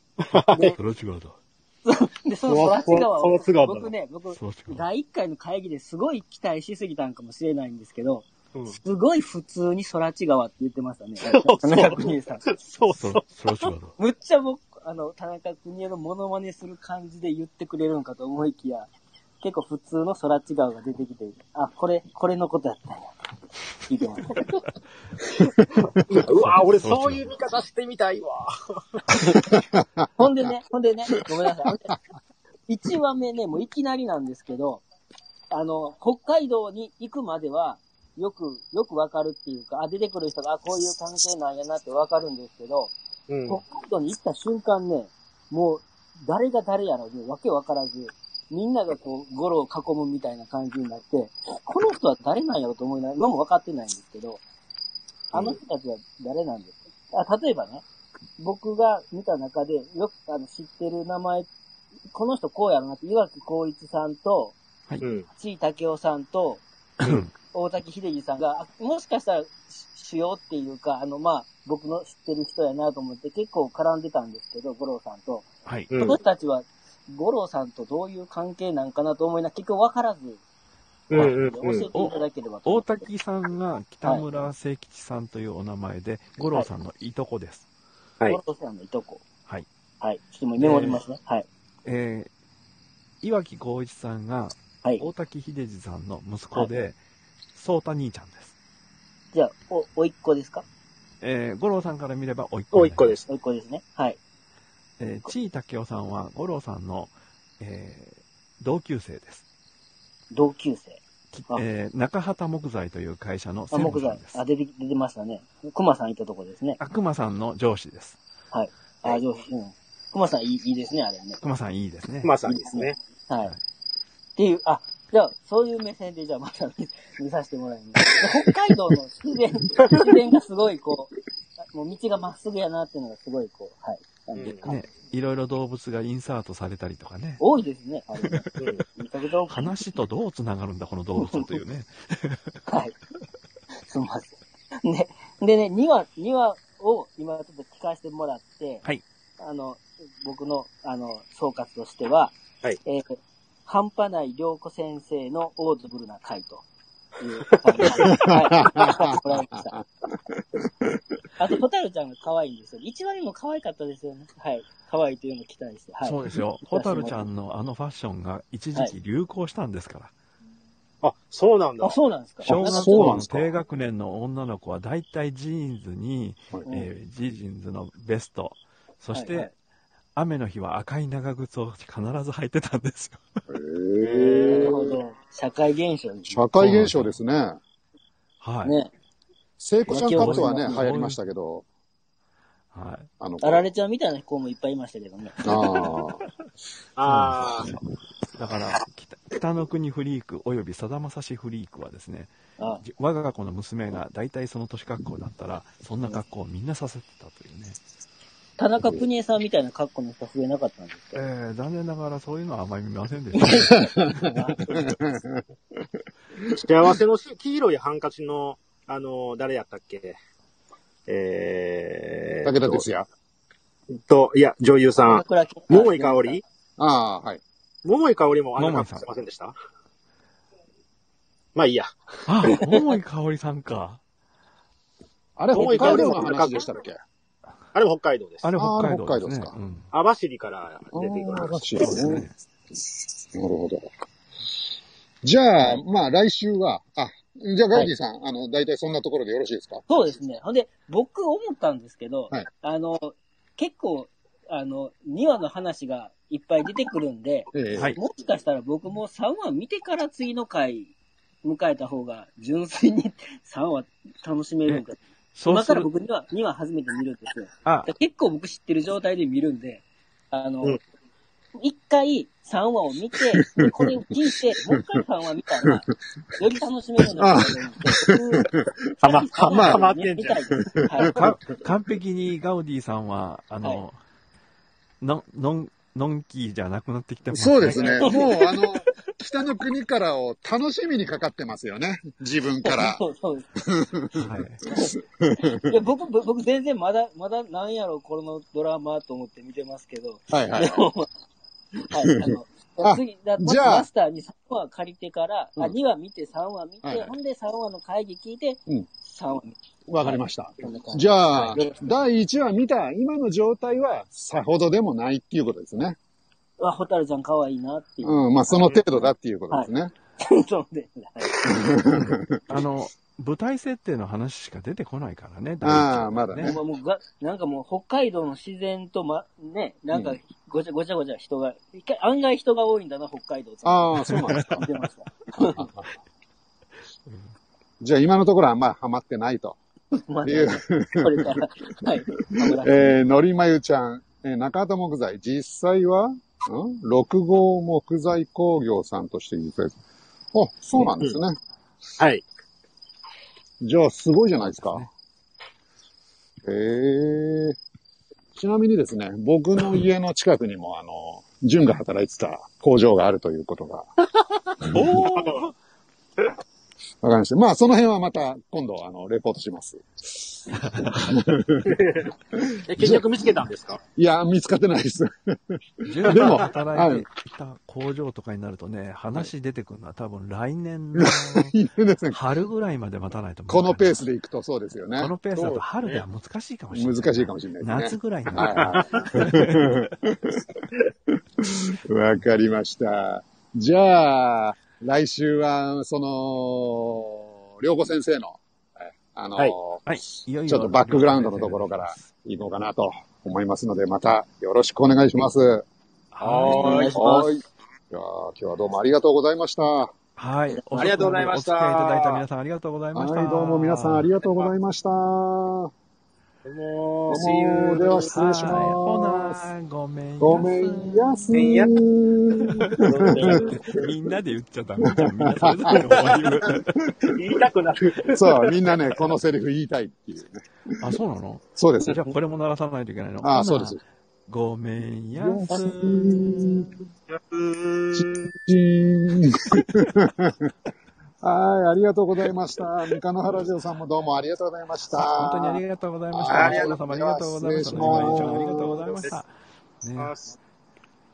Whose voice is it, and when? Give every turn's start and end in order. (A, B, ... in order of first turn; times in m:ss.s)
0:00.2-0:00.8 A
0:00.7-0:01.4 B
0:01.8-0:12.4 C
0:02.5-0:03.9 A
0:04.3-0:04.8 B
0:11.2-0:13.7 A
0:12.9-0:13.9 B
0:14.0-0:18.9 C
0:19.4-0:23.1 C
0:23.9-0:24.5 C
0:25.4-0:29.0 A
0:26.3-0:27.3 B
0:29.3-0:30.1 D
0:30.2-0:31.9 C
0:32.7-0:34.8 C
0:35.5-0:42.9 C
0:43.3-0:43.6 A
0:43.5-0:54.4 C
0:55.3-0:55.6 A
0:55.3-0:57.8 C
0:58.4-1:01.5 C
1:02.1-1:04.6 C
1:05.0-1:05.3 A
1:05.4-1:06.6 C
1:07.0-1:07.3 B
1:07.5-1:20.4 C
1:15.6-1:15.9 B
1:15.9-1:16.2 A
1:21.1-1:21.9 A
1:21.1-1:23.0 C
1:22.6-1:27.6 B
1:28.3-1:29.2 C
1:30.0-1:31.4 C
1:31.8-1:32.3 B
1:33.2-1:37.0 B
1:37.5-1:38.5 B
1:39.3-1:40.6 C
1:41.2-1:43.2 B
1:42.7-1:43.3 A
1:43.3-1:44.2 C
1:45.0-1:49.4 B
1:50.3-1:51.6 C
1:51.3-1:54.4 B
1:53.7-1:56.8 C
1:56.8-1:58.2 B
1:58.5-2:01.4 C
2:01.4-2:02.3 B
2:02.2-2:03.0 A
2:02.4-2:03.5 C
2:04.4-2:11.1 C
2:09.8-2:10.1 A
2:11.7-2:14.8 C
2:14.4-2:17.4 B
2:17.4-2:19.8 C
2:18.2-2:18.5 B
2:19.5-2:22.6 B
2:21.2-2:21.5 C
2:22.7-2:22.9 C
2:23.9-2:28.8 C
2:29.4-2:36.6 C
2:37.2-2:39.8 C
2:37.8-2:38.1 A
2:38.1-2:39.4 D
2:40.3-2:41.0 D
2:41.4-2:47.2 C
2:46.0-2:50.1 B
2:51.0-2:52.0 A
2:51.8-2:53.2 C
2:52.4-2:53.5 D
2:52.4-2:59.5 B
2:56.5-2:56.9 D
2:59.1-2:59.5 C
3:00.2-3:03.2 B
3:03.5-3:04.9 D
3:04.1-3:04.8 A
3:04.5-3:06.4 C
3:06.3-3:07.6 D
3:06.6-3:07.1 B
3:08.4-3:08.7 B
3:08.6-3:08.9 C
3:09.6-3:11.6 D
3:09.9-3:10.8 C
3:09.9-3:11.2 B
3:12.7-3:13.1 B
3:13.2-3:13.7 D
3:13.4-3:15.9 C
3:15.4-3:16.2 D
3:17.0-3:17.7 A
3:17.0-3:17.8 B
3:18.4-3:22.3 B
3:22.8-3:27.8 B
3:28.6-3:31.2 C
3:31.1-3:34.0 B
3:33.4-3:34.6 C
3:33.7-3:35.8 D
3:36.5-3:40.2 A
3:41.1-3:42.8 A
3:42.4-3:43.1 D
3:43.9-3:46.4 A
3:45.1-3:46.4 C
3:46.8-3:47.4 D
3:47.8-3:49.5 A
3:48.6-3:49.0 B
3:51.5-3:52.6 A
3:52.2-3:54.0 B
3:55.4-3:57.0 D
3:55.5-3:56.7 A
3:55.7-3:56.2 C
3:57.7-3:58.5 A
3:58.4-3:59.9 B
3:58.6-3:59.5 D
3:59.9-4:02.2 A
4:00.9-4:02.3 D
4:01.8-4:02.3 B
4:03.3-4:03.9 D
4:05.2-4:09.8 D
4:09.9-4:20.9 C
4:17.5-4:17.9 D
4:21.4-4:30.8 C
4:24.6-4:25.9 B
4:27.6-4:27.9 B
4:31.6-4:41.2 C
4:33.6-4:33.9 D
4:37.0-4:38.7 D
4:39.0-4:40.4 A
4:39.5-4:39.8 D
4:40.7-4:41.4 D
4:41.2-4:44.0 B
4:45.0-4:48.0 B
4:47.3-4:53.0 D
4:47.7-4:48.2 A
4:48.0-4:48.7 C
4:52.6-4:53.6 C
4:53.6-4:55.7 D
4:54.1-4:54.6 B
4:54.7-5:01.1 C
5:00.3-5:00.8 D
5:01.8-5:11.9 C
5:02.0-5:03.9 D
5:06.8-5:07.1 D
5:09.9-5:16.0 D
5:16.6-5:21.8 C
5:18.0-5:19.9 D
5:21.4-5:22.4 D
5:21.9-5:26.6 B
5:25.6-5:26.6 D
5:26.4-5:35.7 C
5:29.9-5:30.2 D
5:33.6-5:34.7 D
5:35.4-5:35.9 D
5:37.8-5:39.6 D
5:40.1-5:43.0 C
5:40.2-5:41.4 D
5:42.2-5:49.8 D
5:50.3-5:51.4 D
5:53.6-5:54.9 D
5:54.6-5:54.9 B
5:56.4-5:57.6 D
5:58.4-6:03.9 D
6:04.7-6:05.5 B
6:05.1-6:05.4 A
6:07.0-6:13.0 D
6:11.6-6:13.8 A
6:14.0-6:17.0 D
6:15.8-6:21.6 B
6:16.1-6:16.5 A
6:21.0-6:22.2 D
6:22.1-6:24.0 B
6:23.5-6:25.1 D
6:25.0-6:29.9 B
6:25.4-6:26.0 A
6:26.7-6:30.6 D
6:28.4-6:29.2 A
6:31.4-6:39.8 D
6:39.9-6:42.1 B
6:40.5-6:45.6 D
6:46.1-6:46.9 B
6:46.2-6:47.2 A
6:46.4-6:47.3 C
6:46.9-6:49.9 D
6:50.2-6:54.1 B
6:50.7-6:52.2 A
6:52.9-6:55.7 D
6:56.4-6:58.2 A
6:57.1-6:59.5 D
6:58.1-7:01.2 B
7:00.2-7:03.9 D
7:01.3-7:01.7 A
7:02.6-7:06.8 B
7:02.8-7:03.7 A
7:04.8-7:07.1 D
7:05.7-7:08.7 A
7:08.1-7:10.8 D
7:10.8-7:16.2 B
7:11.5-7:12.0 D
7:13.2-7:13.8 D
7:15.2-7:16.7 D
7:15.5-7:16.5 A
7:17.1-7:18.3 A
7:17.9-7:20.5 D
7:21.2-7:25.6 D
7:24.9-7:29.3 B
7:26.1-7:29.0 D
7:26.3-7:27.1 A
7:27.7-7:29.2 A
7:29.8-7:30.1 B
7:30.0-7:30.3 A